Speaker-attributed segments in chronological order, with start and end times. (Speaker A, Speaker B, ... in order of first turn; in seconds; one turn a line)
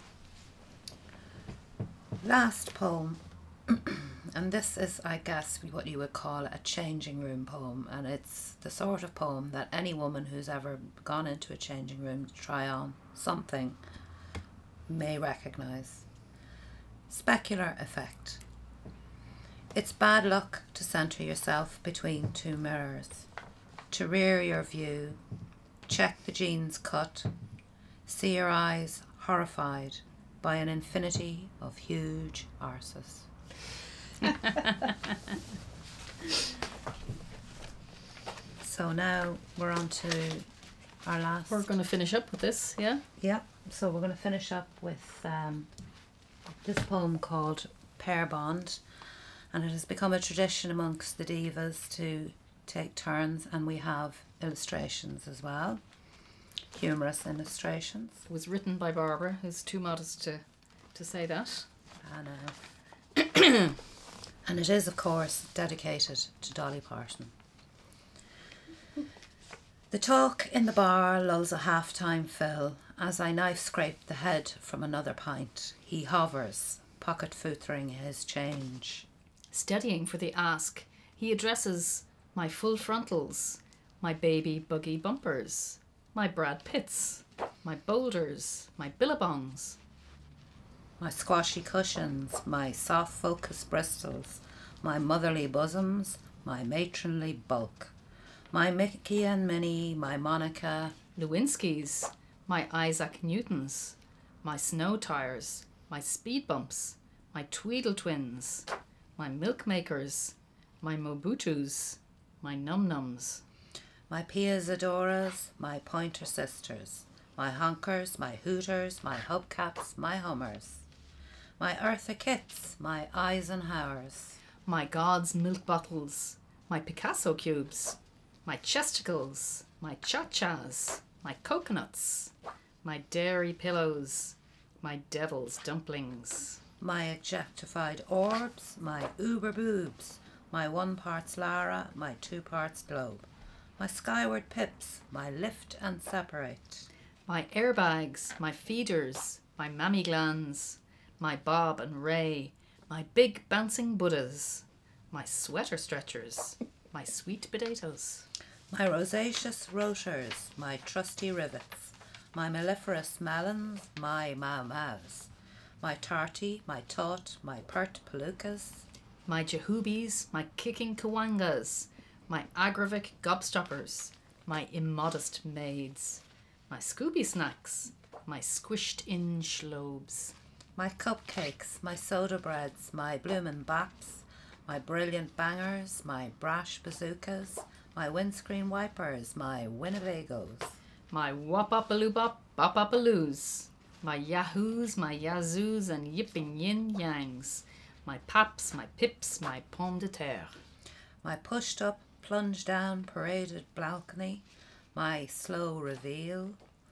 Speaker A: 2.2-13.8
Speaker A: 14.9-16.0
Speaker A: 17.1-18.4
Speaker A: 19.7-23.2
Speaker A: 23.9-25.2
Speaker A: 25.9-27.3
Speaker A: 28.1-33.3
Speaker A: 38.6-40.5
Speaker A: 41.0-41.7
Speaker B: 41.5-43.0
Speaker A: 43.2-45.7
Speaker A: 46.6-48.8
Speaker A: 49.5-55.8
Speaker A: 56.7-58.2
Speaker B: 58.3-61.7
Speaker A: 62.0-62.6
Speaker A: 64.4-67.3
Speaker A: 69.9-79.1
Speaker B: 79.5-89.8
Speaker A: 91.0-97.9
Speaker A: 98.5-101.0
Speaker B: 101.2-113.4
Speaker A: 114.1-120.8
Speaker A: 121.6-124.4
Speaker B: 124.6-136.6
Speaker A: 136.8-143.3
Speaker A: 143.8-146.9
Speaker B: 147.3-158.3
Speaker A: 158.7-168.8
Speaker B: 169.2-180.3
Speaker A: 180.8-190.7
Speaker B: 191.1-200.5
Speaker A: 201.2-206.6